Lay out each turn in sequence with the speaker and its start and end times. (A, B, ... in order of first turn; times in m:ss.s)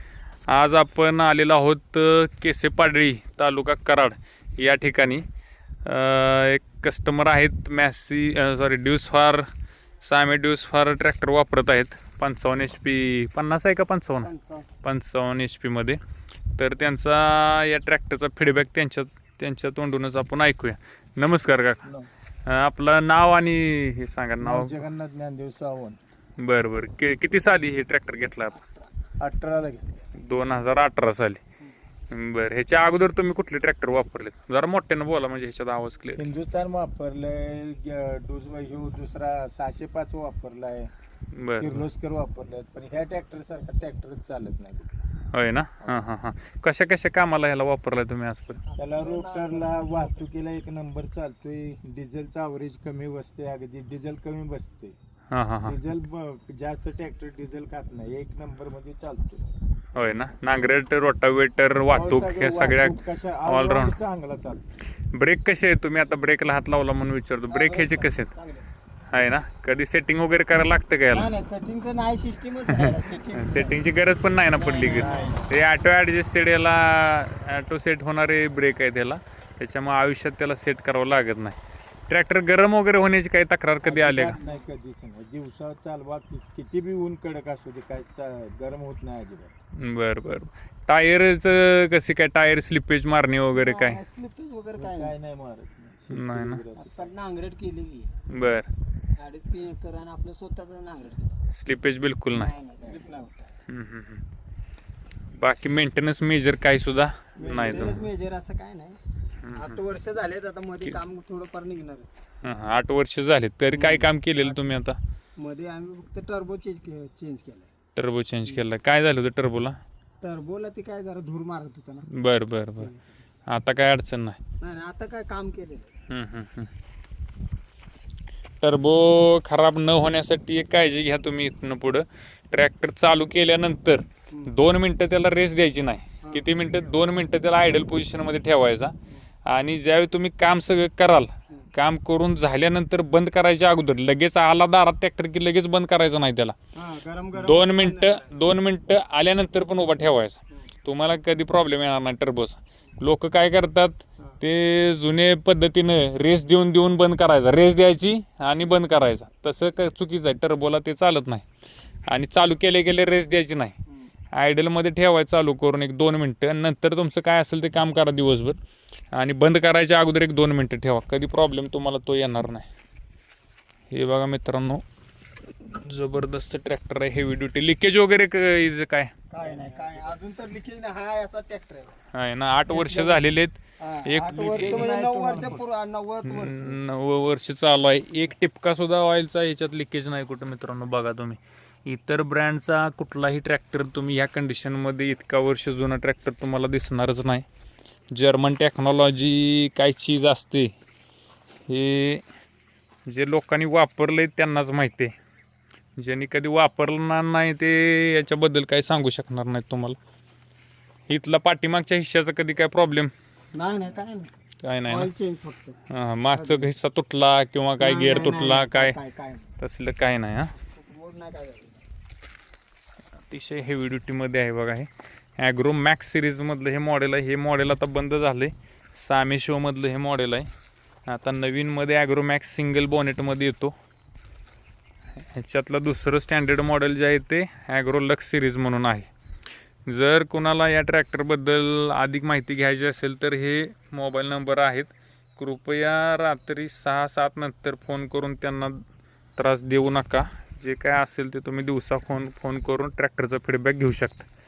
0:00.5-0:05.2 A
0:05.8-0:09.5 A
0:10.0-0:14.3 A
0:14.2-0:14.7 B
0:14.8-0:16.0 A
0:16.6-0:21.8 A
0:22.4-0:24.8 A
0:24.4-0:26.0 C
0:26.4-0:28.6 A
0:29.2-0:30.1 C
0:30.2-0:31.4 A
0:32.1-0:36.2 A
0:36.1-0:40.9 C
0:41.3-0:41.8 A
0:41.6-0:44.9 C
0:45.3-0:48.6 A
0:48.6-0:50.1 B
0:48.8-0:54.9 C
0:55.3-0:55.8 A
0:55.6-0:59.4 C
0:59.9-1:04.0 A
1:01.9-1:04.6 C
1:05.1-1:08.3 A
1:07.5-1:08.7 B
1:09.1-1:11.3 A
1:11.1-1:13.8 B
1:12.8-1:21.6 A
1:14.5-1:15.5 B
1:22.1-1:24.3 A
1:23.8-1:29.5 C
1:24.4-1:24.6 B
1:29.8-1:34.0 A
1:33.5-1:35.2 B
1:34.8-1:37.1 C
1:36.1-1:36.6 A
1:36.7-1:38.1 B
1:38.3-1:38.7 A
1:39.1-1:41.3 B
1:41.5-1:42.5 A
1:42.3-1:43.5 B
1:43.7-1:44.2 A
1:45.3-1:48.0 A
1:47.4-1:49.0 B
1:49.4-1:49.8 A
1:49.5-1:52.1 B
1:52.4-1:55.0 A
1:53.7-1:54.6 B
1:55.4-1:57.7 B
1:57.9-1:59.8 A
2:00.2-2:02.1 B
2:02.1-2:02.9 A
2:02.8-2:03.2 B
2:03.4-2:04.4 A
2:04.6-2:05.9 B
2:06.1-2:06.7 A
2:08.6-2:18.9 A
2:16.2-2:16.5 B
2:19.4-2:26.5 A
2:26.7-2:28.4 B
2:27.4-2:41.4 A
2:42.1-2:43.7 A
2:44.3-2:48.6 A
2:49.1-2:52.7 A
2:53.9-2:54.8 A
2:55.6-2:59.1 A
2:59.3-3:01.9 B
2:59.4-3:00.2 C
3:02.1-3:04.9 A
3:02.7-3:03.2 B
3:03.8-3:06.8 B
3:04.5-3:05.6 C
3:06.2-3:17.4 A
3:18.1-3:20.7 A
3:21.7-3:22.2 A
3:23.0-3:25.1 A
3:26.0-3:30.0 A
3:31.1-3:33.1 A
3:33.5-3:34.3 B
3:34.6-3:35.1 A
3:34.9-3:35.8 B
3:35.9-3:38.9 A
3:36.3-3:36.7 B
3:37.8-3:39.5 B
3:39.6-3:40.5 A
3:40.7-3:41.8 B
3:43.3-3:50.5 A
3:51.1-3:53.7 A
3:55.2-3:59.1 A
3:59.9-4:08.8 A
4:09.4-4:14.2 A